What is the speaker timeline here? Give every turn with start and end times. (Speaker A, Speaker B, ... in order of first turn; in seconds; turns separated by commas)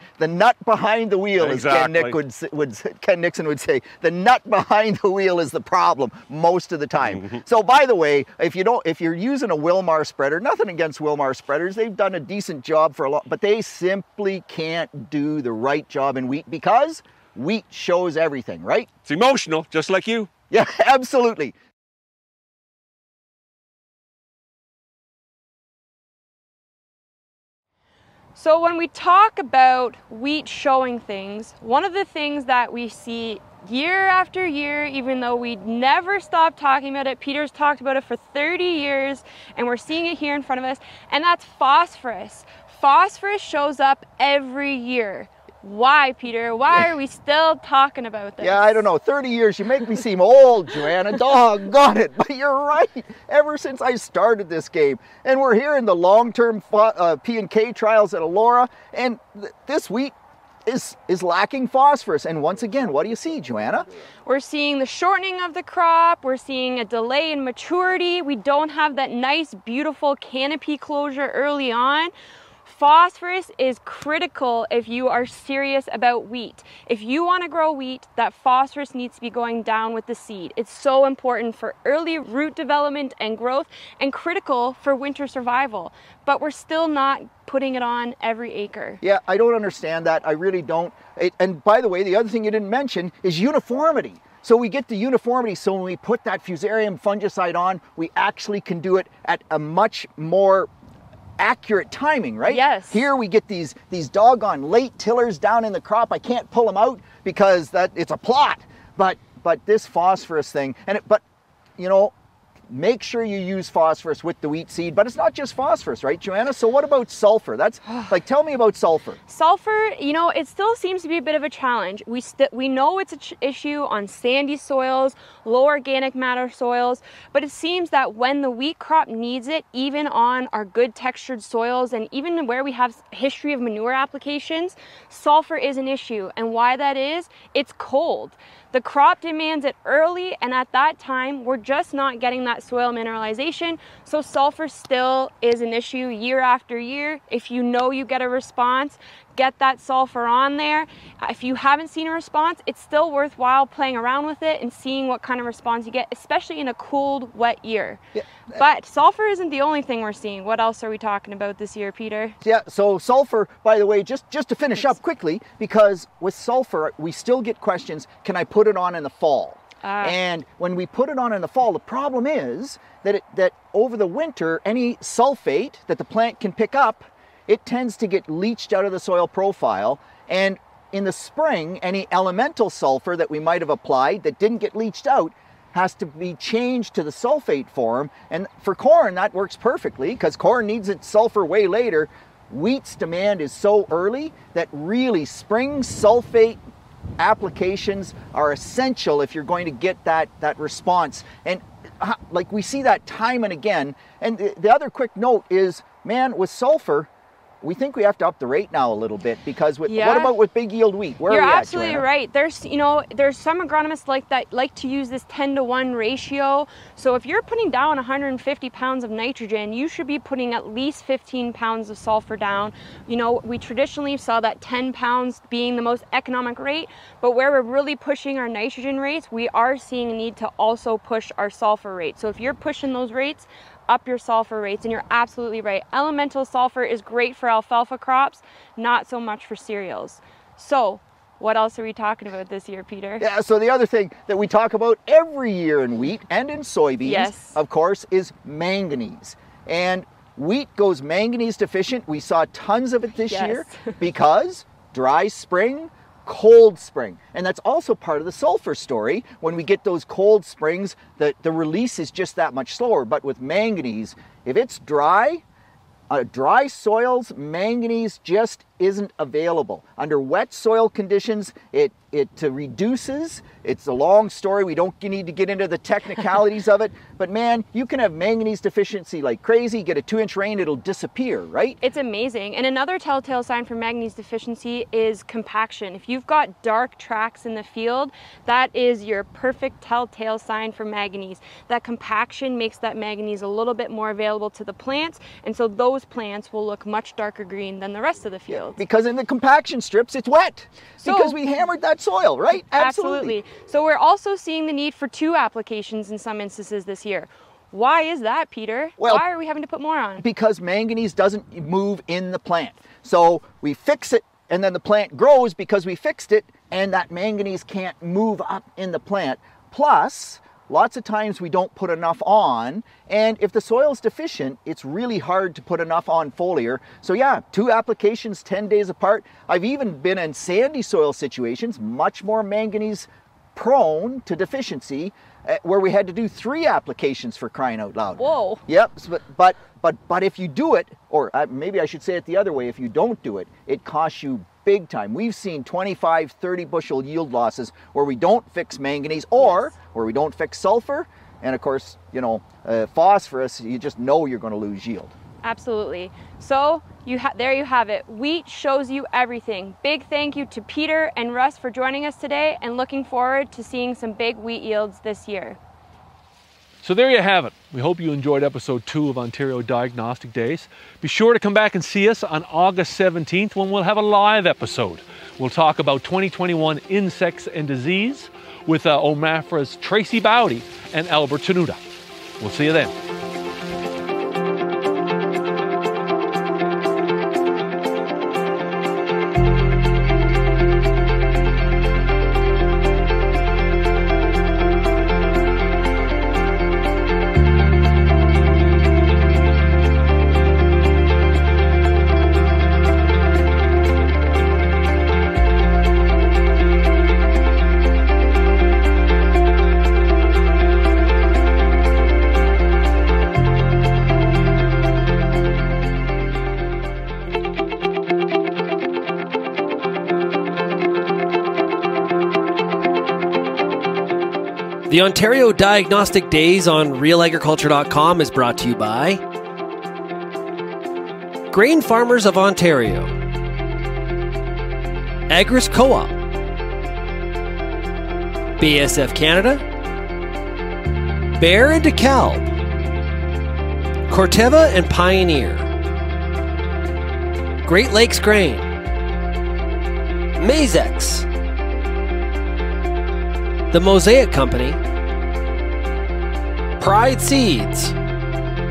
Speaker A: 0.2-18.9, Speaker B: 1.4-2.2, Speaker B: 7.0-7.4, Speaker B: 19.1-20.3, Speaker A: 20.5-21.6, Speaker C: 28.4-48.9, Speaker A: 48.4-60.1, Speaker A: 60.7-63.9, Speaker C: 64.3-72.1, Speaker C: 72.7-89.0, Speaker A: 89.0-100.7, Speaker A: 101.4-111.2, Speaker C: 102.4-103.1, Speaker A: 111.8-112.1, Speaker A: 112.7-119.2, Speaker C: 117.9-118.2, Speaker C: 119.3-162.4, Speaker A: 158.2-158.6, Speaker A: 162.4-196.6, Speaker C: 169.8-170.2, Speaker A: 197.2-207.1, Speaker A: 207.6-212.1, Speaker C: 209.9-210.3, Speaker C: 211.3-243.2, Speaker A: 243.2-265.4, Speaker C: 247.0-247.6, Speaker C: 253.3-254.0, Speaker A: 266.1-281.8, Speaker C: 281.8-298.8, Speaker A: 298.5-303.4, Speaker C: 301.0-301.4, Speaker C: 302.7-310.3, Speaker A: 309.0-309.2, Speaker A: 310.2-355.1, Speaker C: 338.1-338.6, Speaker C: 349.4-349.7, Speaker C: 355.4-365.6, Speaker D: 366.8-381.8, Speaker D: 382.4-382.9, Speaker E: 424.9-429.2, Speaker E: 431.5-433.2, Speaker E: 435.3-436.2, Speaker E: 438.6-439.7, Speaker E: 441.4-442.5, Speaker E: 444.1-445.7, Speaker E: 447.6-448.7, Speaker E: 450.4-451.3, Speaker E: 453.7-454.8, Speaker E: 456.8-458.0